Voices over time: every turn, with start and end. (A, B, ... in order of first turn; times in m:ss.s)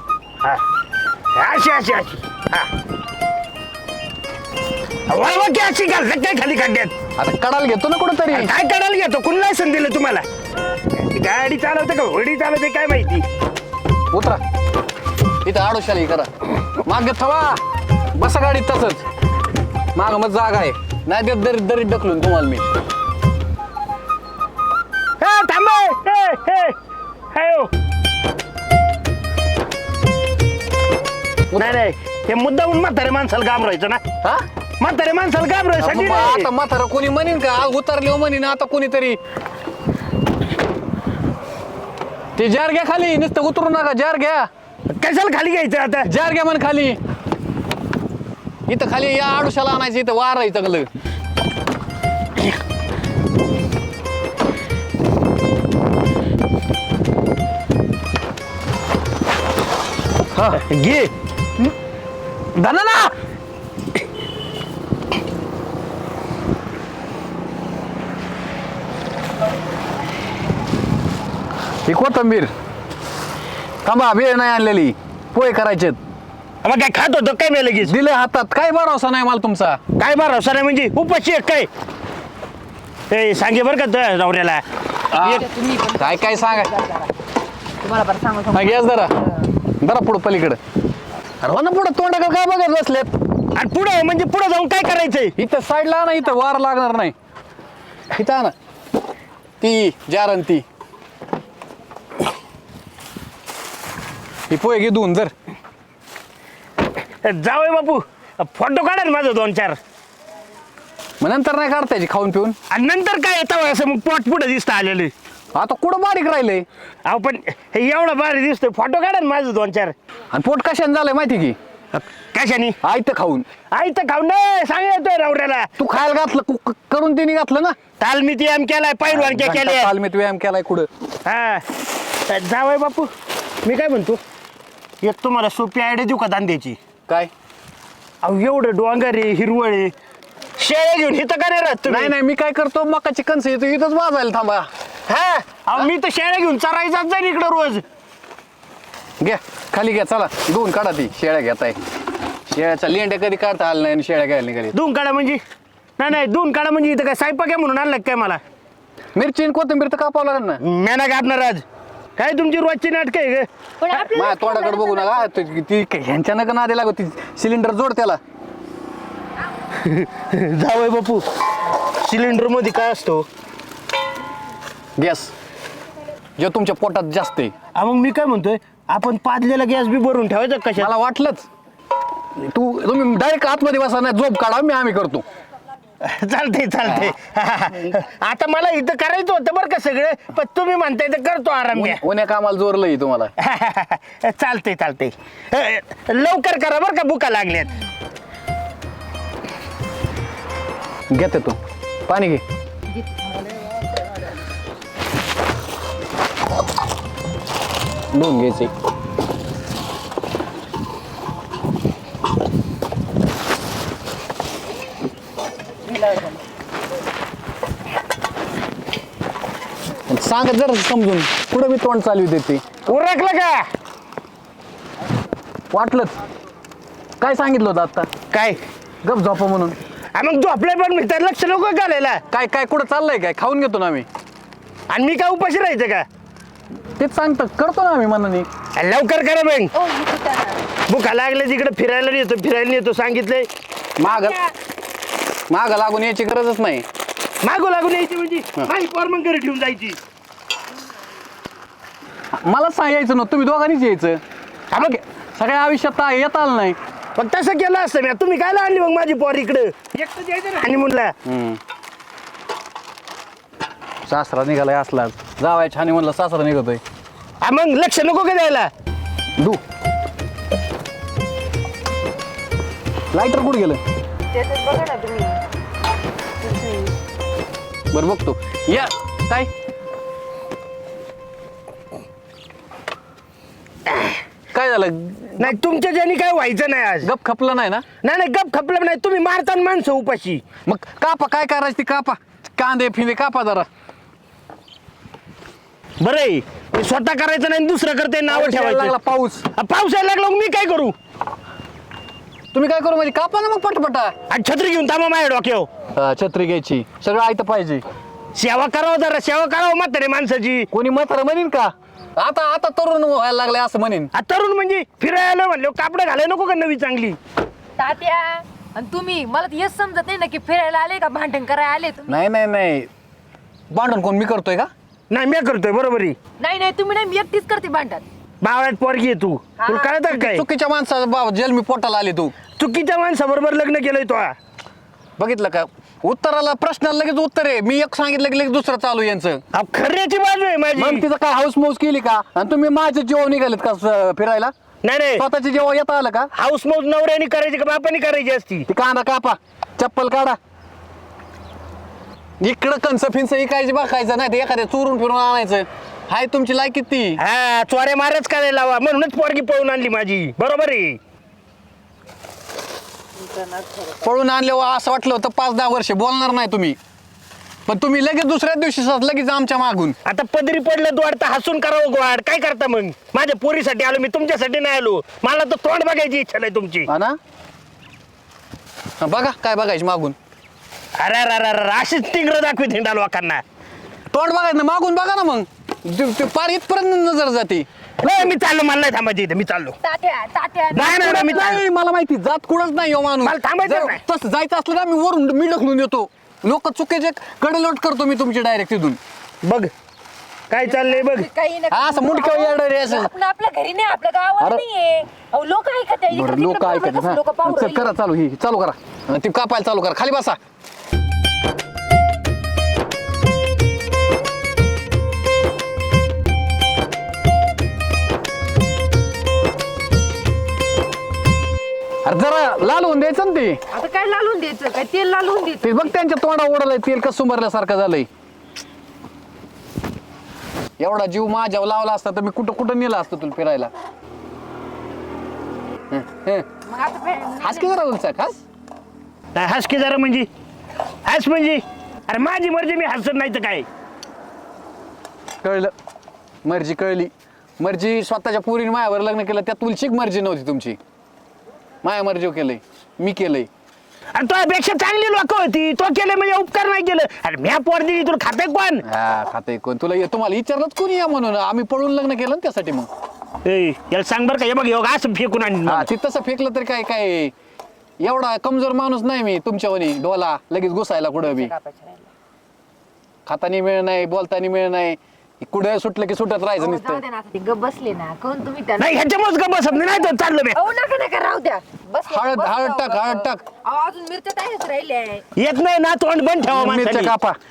0:01.4-0:02.7 A
0:05.1-0:07.0 A
0:07.2-0:08.5 B
0:08.3-0:10.2 A
0:11.0-0:13.2 A
0:14.1-0:14.4 B
0:15.4-0:17.6 B
0:18.2-0:19.0 B
0:20.0-0:22.6 B
0:25.2-0:26.8 A
0:27.3-0:27.7 A
0:31.6-0:34.0 A
0:34.8-0:36.5 A
0:35.8-0:39.2 B
0:42.4-0:44.5 B
0:44.9-0:46.1 A
0:46.0-0:47.0 B
0:48.7-0:50.9 B
1:00.4-1:00.6 B
1:00.6-1:01.1 A
1:02.6-1:03.1 B
1:11.9-1:12.5 B
1:13.8-1:16.0 B
1:16.6-1:18.0 A
1:17.8-1:19.8 B
1:20.0-1:21.7 A
1:23.1-1:24.6 A
1:25.1-1:26.7 B
1:25.2-1:27.1 C
1:27.8-1:29.4 C
1:28.5-1:29.1 B
1:29.8-1:30.6 B
1:31.4-1:33.1 B
1:33.6-1:35.4 A
1:35.4-1:37.1 B
1:38.1-1:38.5 B
1:39.6-1:40.6 B
1:44.5-1:45.3 B
1:47.2-1:49.8 A
1:51.2-1:52.6 B
1:52.7-1:55.1 A
1:55.6-1:56.7 B
1:57.1-1:59.9 A
2:00.3-2:01.6 B
2:02.0-2:02.8 A
2:02.8-2:03.5 B
2:03.7-2:05.7 A
2:05.8-2:07.8 B
2:08.0-2:09.9 A
2:09.1-2:10.9 B
2:11.3-2:11.6 A
2:12.3-2:13.1 A
2:13.6-2:14.2 A
2:15.0-2:16.8 A
2:18.2-2:19.9 A
2:20.6-2:22.1 A
2:21.9-2:24.7 B
2:25.1-2:27.8 A
2:29.2-2:31.8 B
2:32.5-2:34.8 B
2:34.7-2:35.4 A
2:36.0-2:38.4 A
2:39.2-2:40.6 B
2:40.6-2:41.6 A
2:42.2-2:44.1 A
2:43.8-2:45.3 C
2:44.1-2:48.2 B
2:49.8-2:51.2 A
2:52.0-2:53.3 A
2:55.0-2:55.3 B
2:56.4-2:57.5 B
2:57.8-3:00.9 A
3:00.8-3:01.5 B
3:02.4-3:05.2 B
3:06.0-3:12.0 A
3:11.8-3:13.3 B
3:13.4-3:17.8 A
3:21.1-3:22.4 B
3:23.0-3:23.6 C
3:28.1-3:28.7 B
3:40.1-3:42.7 B
3:42.9-3:43.7 A
3:45.7-3:46.1 B
3:47.2-3:48.1 B
3:48.3-3:48.6 A
3:49.0-3:49.8 B
3:50.2-3:52.2 A
3:52.3-3:54.1 B
3:54.9-3:56.0 A
3:57.0-3:58.5 B
3:58.8-3:59.7 A
3:59.7-4:00.6 C
4:00.9-4:03.5 A
4:04.0-4:04.4 B
4:04.1-4:04.5 C
4:05.5-4:06.8 B
4:07.4-4:10.0 A
4:12.4-4:14.2 B
4:14.7-4:15.0 A
4:14.8-4:16.8 B
4:17.2-4:21.1 A
4:21.2-4:21.6 B
4:24.1-4:26.8 B
4:27.4-4:28.7 A
4:33.1-4:33.8 B
4:34.3-4:35.4 C
4:36.4-4:36.9 C
4:37.9-4:39.5 B
4:44.5-4:45.5 B
4:45.4-4:47.1 A
4:47.0-4:47.9 B
4:48.0-4:50.4 A
4:50.7-4:53.7 B
4:56.0-4:59.0 A
4:58.3-4:59.5 B
4:59.6-5:01.0 A
5:02.5-5:04.1 B
5:04.3-5:05.7 A
5:06.0-5:07.8 B
5:08.4-5:10.7 A
5:10.7-5:14.1 B
5:14.1-5:17.2 A
5:17.8-5:22.2 C
5:22.1-5:22.9 B
5:23.7-5:24.7 B
5:25.1-5:26.2 A
5:26.4-5:28.0 C
5:28.4-5:30.4 A
5:29.6-5:29.9 C
5:30.1-5:32.4 B
5:32.6-5:34.4 A
5:35.2-5:39.4 B
5:39.5-5:41.1 A
5:40.8-5:44.5 B
5:44.8-5:45.2 A
5:45.2-5:46.3 B
5:46.3-5:48.7 A
5:48.7-5:50.4 B
5:52.4-5:57.2 B
5:57.2-6:01.0 A
6:03.2-6:04.0 C
6:04.0-6:06.8 B
6:07.7-6:10.0 B
6:10.1-6:16.9 A
6:16.9-6:17.2 B
6:19.0-6:20.2 B
6:21.0-6:23.4 A
6:24.1-6:27.7 B
6:28.0-6:29.8 A
6:29.8-6:31.5 C
6:30.7-6:31.6 A
6:30.9-6:39.0 B
6:33.2-6:34.0 A
6:39.4-6:39.7 A
6:40.5-6:41.3 A
6:40.7-6:47.9 C
6:41.7-6:43.1 B
6:46.1-6:50.4 B
7:02.0-7:03.6 B
7:03.7-7:05.9 C
7:05.6-7:08.1 B
7:10.8-7:13.7 B
7:15.9-7:16.5 B
7:16.7-7:17.8 C
7:17.4-7:18.4 B
7:19.4-7:20.3 A
7:21.1-7:23.7 A
7:25.4-7:25.7 B
7:26.4-7:30.8 B
7:31.8-7:33.5 B
7:34.2-7:38.8 A
7:38.8-7:42.9 B
7:43.4-7:45.9 A
7:45.7-7:47.3 B
7:48.0-7:51.5 B
7:51.2-7:52.1 C
7:53.3-7:57.0 B
7:56.6-7:59.0 C
7:58.8-8:00.6 A
7:59.7-8:05.2 C
8:02.1-8:03.4 B
8:05.4-8:07.1 A
8:06.5-8:07.4 B